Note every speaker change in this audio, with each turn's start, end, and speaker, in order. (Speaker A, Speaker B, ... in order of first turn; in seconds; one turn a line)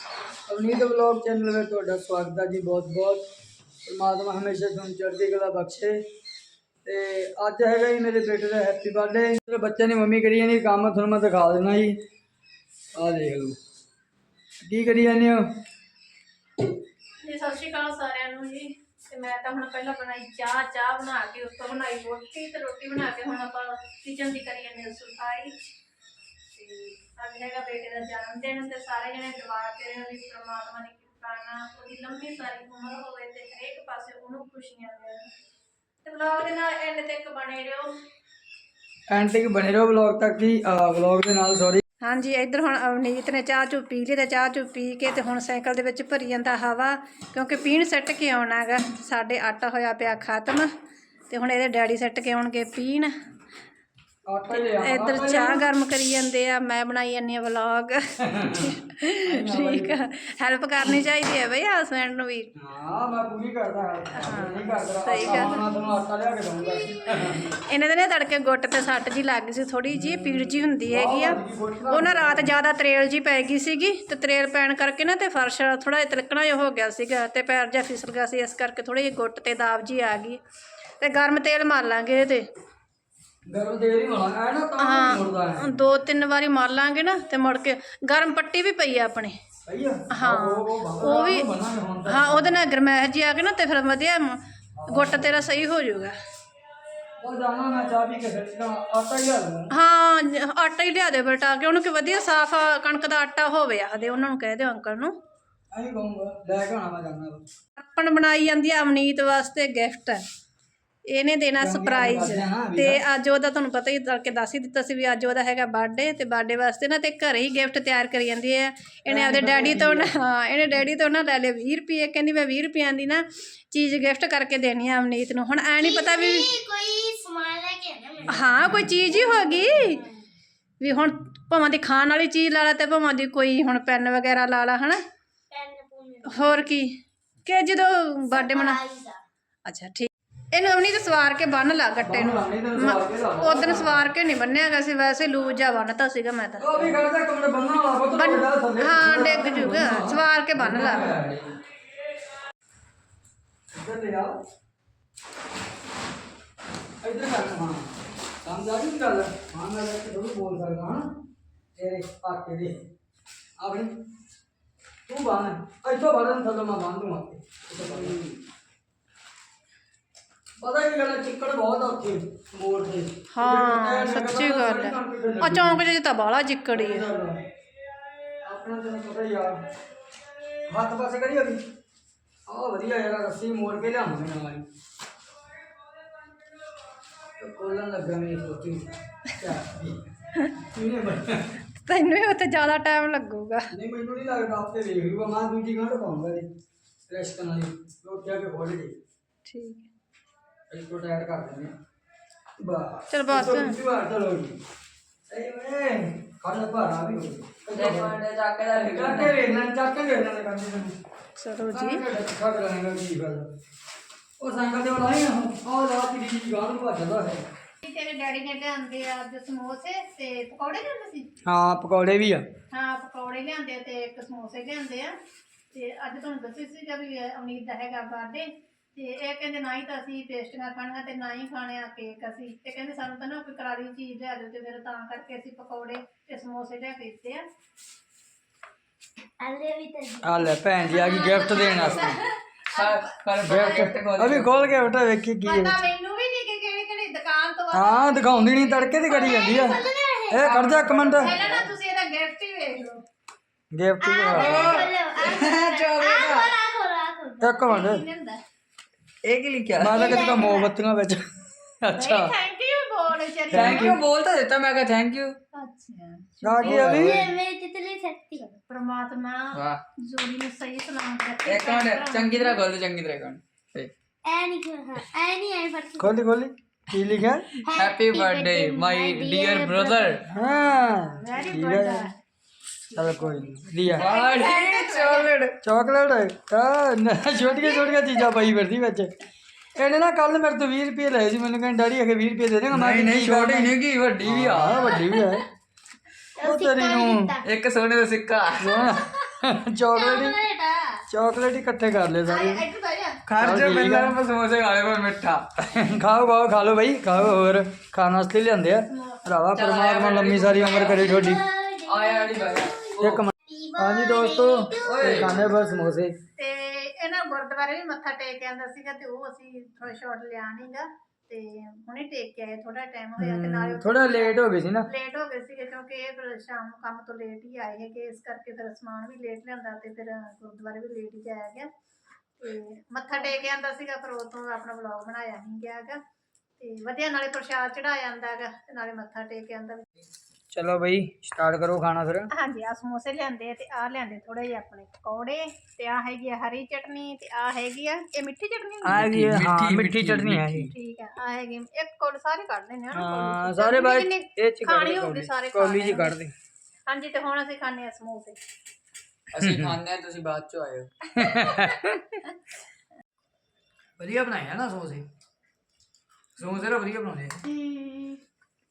Speaker A: 0.5-3.2
Speaker A: 3.8-6.0
Speaker A: 6.8-11.9
Speaker A: 12.9-13.6
Speaker A: 14.6-15.4
Speaker B: 17.2-25.5
Speaker B: 26.5-35.3
Speaker B: 36.0-37.9
Speaker A: 39.1-41.8
Speaker B: 42.0-50.7
Speaker B: 51.3-53.1
Speaker A: 54.3-55.7
Speaker B: 54.5-62.5
Speaker A: 58.2-58.7
Speaker A: 59.2-60.0
Speaker A: 62.5-67.5
Speaker B: 64.1-65.6
Speaker B: 66.9-80.4
Speaker A: 69.9-72.5
Speaker B: 81.0-82.5
Speaker A: 83.5-85.7
Speaker B: 84.8-89.4
Speaker A: 89.7-92.6
Speaker B: 90.1-91.5
Speaker B: 92.0-96.2
Speaker A: 94.8-95.3
Speaker A: 97.2-99.7
Speaker B: 99.7-105.1
Speaker A: 105.7-107.4
Speaker B: 107.8-110.2
Speaker B: 111.1-126.5
Speaker A: 111.6-113.0
Speaker A: 119.1-120.1
Speaker C: 125.8-130.2
Speaker B: 128.3-130.0
Speaker B: 130.8-135.0
Speaker C: 135.5-136.6
Speaker B: 136.3-138.8
Speaker C: 138.3-139.2
Speaker B: 139.7-146.9
Speaker A: 142.0-144.1
Speaker A: 146.6-151.6
Speaker B: 148.1-151.2
Speaker A: 153.7-154.4
Speaker A: 157.0-157.9
Speaker A: 158.4-161.1
Speaker A: 161.8-162.8
Speaker A: 163.6-163.9
Speaker A: 165.1-168.2
Speaker D: 167.9-168.3
Speaker A: 170.6-175.8
Speaker B: 173.3-177.1
Speaker A: 176.7-177.4
Speaker A: 178.4-179.6
Speaker A: 180.7-181.6
Speaker A: 182.5-184.6
Speaker A: 187.4-191.6
Speaker B: 191.8-193.7
Speaker A: 193.7-196.5
Speaker A: 197.1-198.9
Speaker B: 199.4-199.8
Speaker A: 200.7-201.7
Speaker A: 202.6-204.6
Speaker B: 203.1-203.8
Speaker A: 205.3-208.1
Speaker D: 207.7-209.4
Speaker A: 208.9-210.9
Speaker B: 211.4-212.0
Speaker A: 211.7-213.4
Speaker A: 214.4-217.4
Speaker B: 217.8-221.3
Speaker A: 221.4-222.4
Speaker B: 222.7-225.1
Speaker B: 225.7-237.4
Speaker C: 239.4-240.5
Speaker A: 240.2-242.2
Speaker B: 240.8-243.9
Speaker D: 242.7-244.9
Speaker A: 243.4-245.8
Speaker B: 245.4-249.9
Speaker A: 247.7-249.8
Speaker C: 249.1-250.5
Speaker A: 250.3-251.4
Speaker D: 250.4-251.7
Speaker B: 251.2-253.0
Speaker A: 253.7-254.8
Speaker C: 254.0-257.6
Speaker D: 254.3-256.5
Speaker A: 257.4-258.0
Speaker B: 257.7-258.4
Speaker D: 259.2-260.1
Speaker A: 259.8-261.2
Speaker C: 259.9-260.7
Speaker A: 261.8-262.3
Speaker B: 261.9-264.0
Speaker A: 263.5-263.9
Speaker D: 263.5-265.4
Speaker B: 265.5-266.7
Speaker A: 266.4-267.2
Speaker D: 266.6-267.3
Speaker C: 266.7-268.5
Speaker B: 268.5-272.6
Speaker D: 269.5-269.8
Speaker D: 271.4-273.9
Speaker C: 274.2-276.1
Speaker A: 276.0-277.5
Speaker C: 277.6-280.2
Speaker D: 277.7-280.2
Speaker A: 280.3-282.1
Speaker B: 280.3-282.1
Speaker A: 282.9-284.1
Speaker B: 283.0-285.2
Speaker D: 283.9-285.6
Speaker C: 284.3-285.2
Speaker A: 285.6-289.1
Speaker A: 289.7-295.4
Speaker D: 292.7-294.9
Speaker C: 294.9-295.4
Speaker C: 296.4-297.4
Speaker A: 296.4-297.3
Speaker D: 297.4-298.8
Speaker A: 298.6-300.3
Speaker C: 298.8-299.2
Speaker C: 299.9-301.0
Speaker A: 301.1-302.6
Speaker B: 302.3-303.2
Speaker D: 303.3-305.4
Speaker A: 303.4-304.1
Speaker A: 305.6-311.4
Speaker D: 309.5-311.2
Speaker C: 310.8-315.6
Speaker D: 311.9-313.2
Speaker A: 313.0-316.1
Speaker D: 314.8-315.4
Speaker B: 316.4-331.7
Speaker A: 323.2-324.9
Speaker B: 332.4-336.0
Speaker B: 336.6-339.9
Speaker A: 340.5-342.3
Speaker B: 342.3-349.1
Speaker A: 348.8-350.7
Speaker D: 348.9-350.7
Speaker B: 350.7-356.1
Speaker A: 352.9-356.3
Speaker B: 356.9-358.4
Speaker D: 359.3-360.9
Speaker A: 359.4-359.7
Speaker A: 361.1-362.0
Speaker B: 361.3-361.7
Speaker D: 364.0-365.0
Speaker D: 366.4-367.4
Speaker C: 367.4-368.2